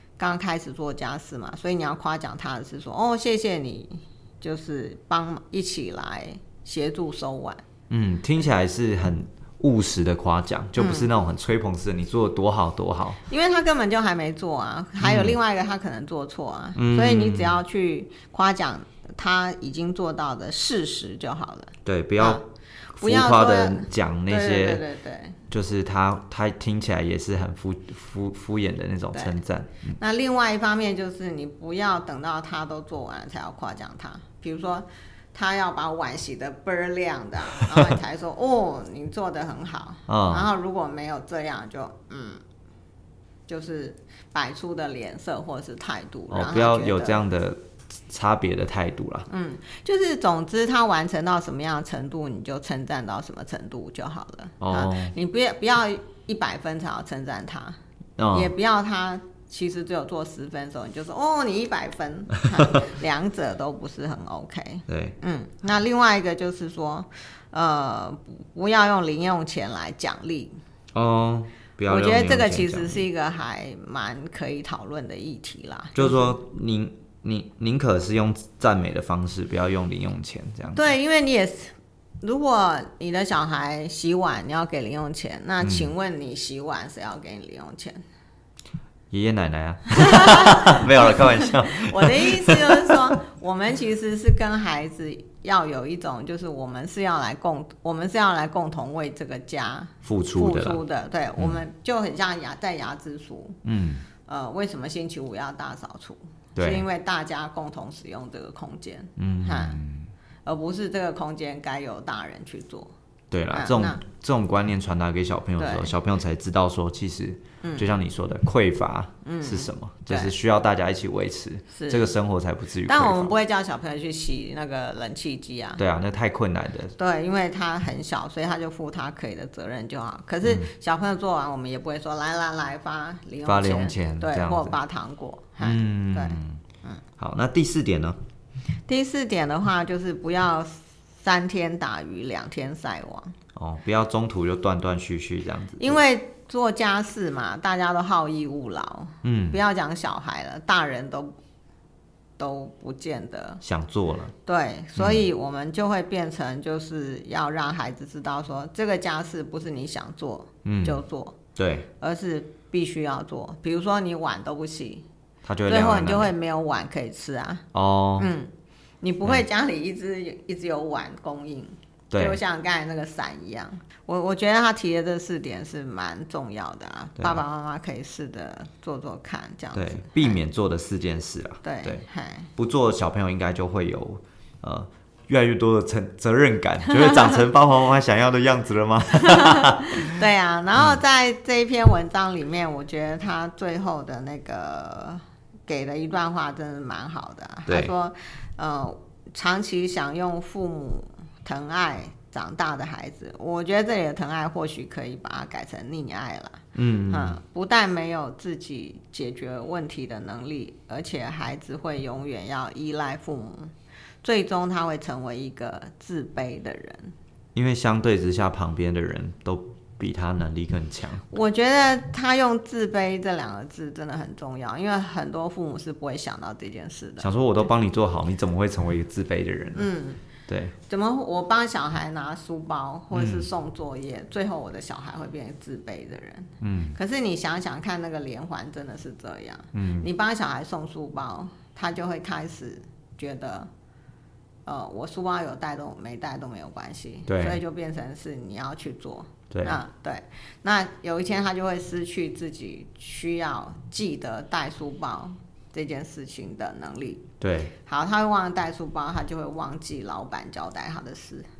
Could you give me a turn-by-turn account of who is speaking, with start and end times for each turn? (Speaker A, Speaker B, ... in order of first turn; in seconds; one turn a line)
Speaker A: 0.2-7.6
Speaker B: 7.9-13.2
Speaker A: 10.8-11.1
Speaker A: 13.3-22.4
Speaker B: 15.0-15.4
Speaker B: 16.8-17.6
Speaker B: 21.8-22.4
Speaker B: 22.9-24.8
Speaker A: 23.0-25.4
Speaker B: 25.5-30.0
Speaker A: 29.1-29.4
Speaker A: 30.0-42.4
Speaker B: 37.5-37.9
Speaker B: 40.1-40.5
Speaker A: 43.5-47.2
Speaker B: 46.3-49.3
Speaker A: 49.3-57.8
Speaker B: 54.6-55.1
Speaker B: 58.2-58.5
Speaker A: 58.3-70.6
Speaker B: 62.3-62.9
Speaker B: 64.9-65.2
Speaker B: 70.9-73.0
Speaker A: 71.9-76.4
Speaker B: 75.9-80.8
Speaker A: 80.7-88.0
Speaker B: 85.6-85.9
Speaker B: 89.1-93.2
Speaker A: 90.0-103.6
Speaker B: 100.0-100.8
Speaker B: 103.6-104.1
Speaker A: 104.2-109.8
Speaker B: 106.5-106.8
Speaker B: 109.2-110.1
Speaker A: 110.4-112.9
Speaker B: 113.3-123.3
Speaker A: 113.5-114.0
Speaker A: 115.6-115.9
Speaker A: 117.6-117.9
Speaker A: 119.2-120.3
Speaker A: 121.7-122.1
Speaker A: 122.8-125.8
Speaker B: 125.8-126.9
Speaker A: 127.0-137.0
Speaker B: 130.4-130.7
Speaker B: 133.4-134.8
Speaker B: 135.6-136.6
Speaker B: 137.2-138.2
Speaker A: 138.9-143.3
Speaker B: 143.6-146.0
Speaker A: 145.8-151.3
Speaker B: 149.2-149.6
Speaker A: 152.4-153.6
Speaker B: 153.6-154.3
Speaker A: 154.4-161.4
Speaker B: 154.9-155.2
Speaker B: 160.6-161.0
Speaker B: 161.6-161.9
Speaker A: 162.0-165.1
Speaker B: 165.4-166.3
Speaker A: 165.7-167.6
Speaker B: 167.7-168.3
Speaker A: 168.2-168.5
Speaker A: 169.0-180.4
Speaker B: 172.1-172.4
Speaker B: 179.7-182.0
Speaker A: 181.6-182.5
Speaker B: 182.6-190.2
Speaker A: 189.2-217.1
Speaker B: 197.7-197.9
Speaker B: 206.7-207.4
Speaker B: 217.5-221.3
Speaker A: 221.3-227.3
Speaker B: 227.2-229.9
Speaker A: 229.7-230.2
Speaker B: 230.5-230.7
Speaker A: 230.9-243.7
Speaker B: 233.1-233.5
Speaker B: 236.6-237.0
Speaker B: 239.7-240.1
Speaker A: 244.6-257.3
Speaker B: 247.3-247.6
Speaker B: 249.5-249.8
Speaker B: 257.4-257.7
Speaker A: 257.8-261.5